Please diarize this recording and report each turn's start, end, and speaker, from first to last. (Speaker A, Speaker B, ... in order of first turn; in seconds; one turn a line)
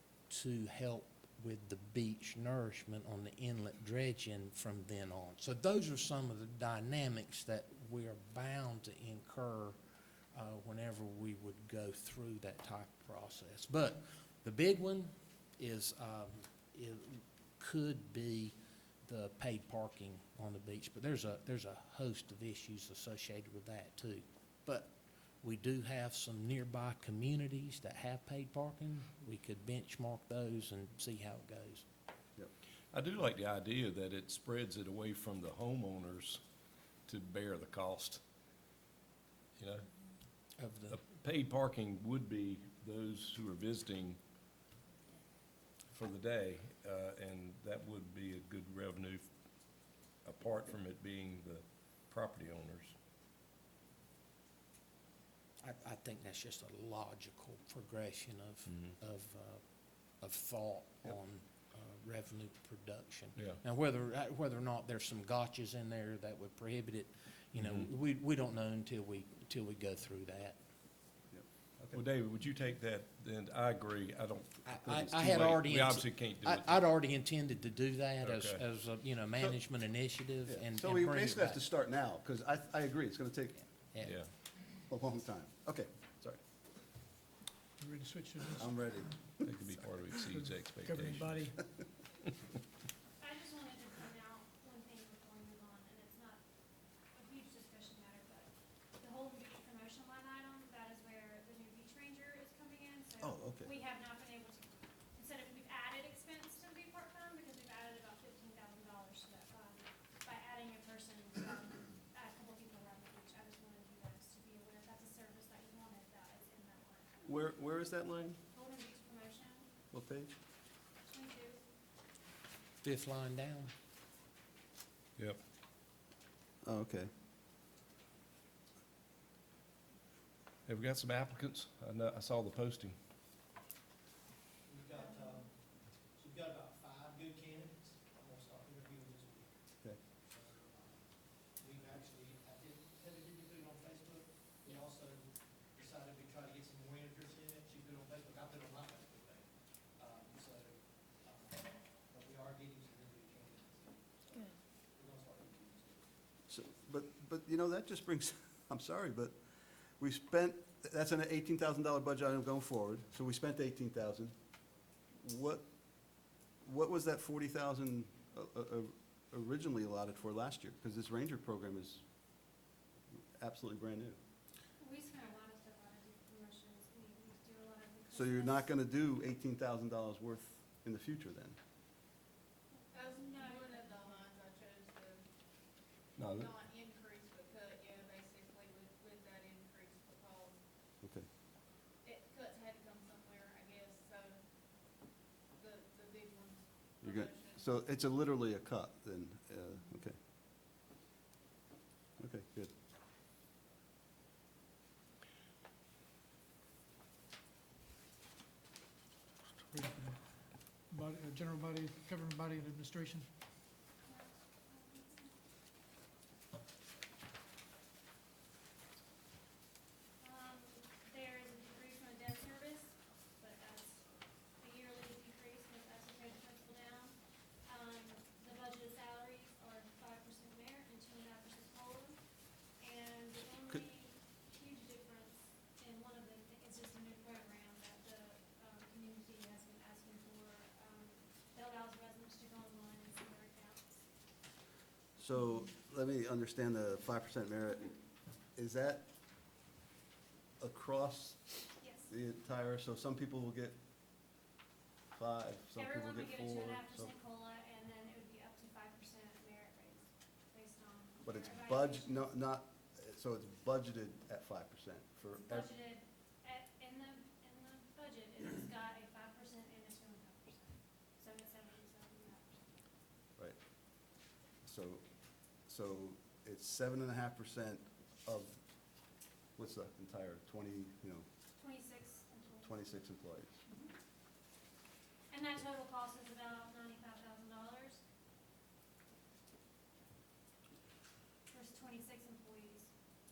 Speaker A: 0.3-9.8
Speaker A: 10.3-31.9
Speaker B: 32.9-36.4
Speaker B: 37.1-38.2
Speaker B: 39.6-39.9
Speaker A: 40.6-41.0
Speaker B: 40.9-44.2
Speaker B: 45.9-49.3
Speaker B: 50.2-52.9
Speaker A: 55.6-59.6
Speaker A: 60.2-70.6
Speaker C: 71.3-72.0
Speaker B: 71.9-76.8
Speaker A: 74.7-81.6
Speaker B: 78.2-78.6
Speaker C: 80.5-83.6
Speaker B: 84.0-84.3
Speaker C: 84.9-86.4
Speaker D: 87.8-88.7
Speaker C: 88.6-89.7
Speaker B: 89.4-91.5
Speaker D: 90.3-91.6
Speaker E: 93.2-96.4
Speaker E: 97.1-117.4
Speaker C: 103.2-103.7
Speaker C: 117.2-118.4
Speaker E: 118.5-119.7
Speaker C: 119.9-120.3
Speaker E: 121.0-121.6
Speaker A: 122.8-123.7
Speaker C: 126.6-127.1
Speaker B: 130.7-132.9
Speaker F: 134.7-135.4
Speaker F: 136.2-139.5
Speaker F: 140.3-140.9
Speaker F: 141.6-145.2
Speaker F: 145.8-149.5
Speaker F: 150.0-151.6
Speaker F: 152.1-154.4
Speaker F: 154.9-156.0
Speaker C: 156.5-159.3
Speaker C: 160.0-164.3
Speaker C: 165.2-165.6
Speaker C: 166.6-172.0
Speaker C: 173.1-174.2
Speaker E: 174.8-178.7
Speaker C: 178.1-181.6
Speaker E: 182.7-184.2
Speaker G: 182.9-185.3
Speaker B: 186.2-186.5
Speaker G: 186.2-190.6
Speaker C: 191.0-191.3
Speaker G: 192.0-194.4
Speaker G: 195.5-197.7
Speaker C: 197.0-200.2
Speaker C: 202.2-202.7
Speaker D: 209.6-213.3
Speaker E: 214.0-215.3
Speaker E: 220.2-232.2
Speaker E: 232.8-244.0
Speaker C: 245.2-248.0
Speaker C: 248.6-249.1
Speaker C: 250.6-253.8
Speaker E: 251.8-252.1
Speaker C: 255.1-257.1
Speaker E: 255.7-262.2
Speaker C: 261.2-265.7
Speaker E: 265.4-272.6
Speaker C: 274.6-275.0
Speaker C: 275.6-278.6
Speaker C: 279.6-281.2
Speaker E: 281.6-282.8
Speaker C: 282.6-283.6
Speaker E: 283.7-283.9
Speaker E: 285.3-288.0
Speaker E: 291.5-292.9